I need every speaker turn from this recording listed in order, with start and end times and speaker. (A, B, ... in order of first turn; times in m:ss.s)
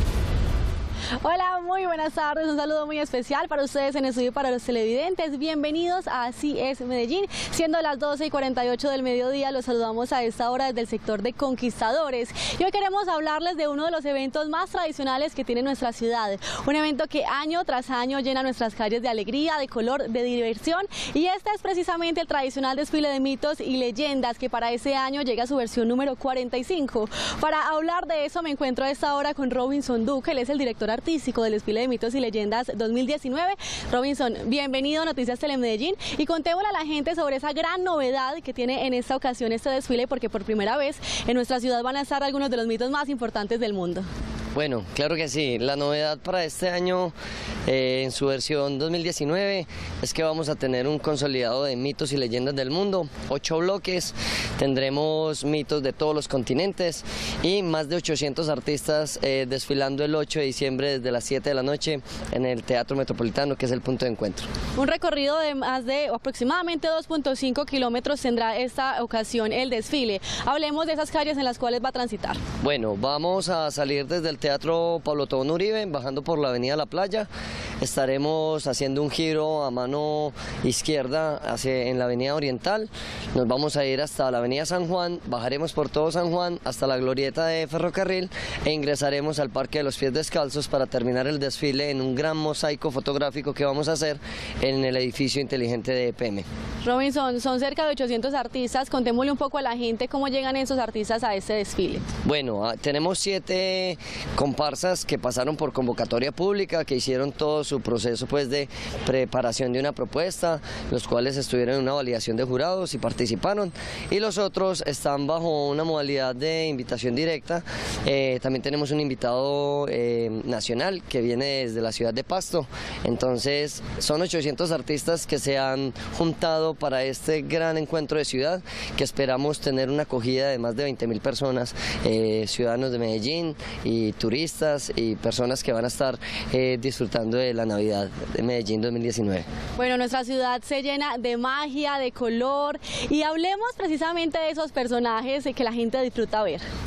0:01.2-0:44.1 A
0:44.5-0:47.1 B
0:47.7-1:04.5 B
1:04.8-1:12.4 A
1:12.6-1:17.3 B
1:17.8-1:36.5 B
1:36.8-1:42.0 A
1:42.2-2:19.5 B
2:19.8-2:26.6 A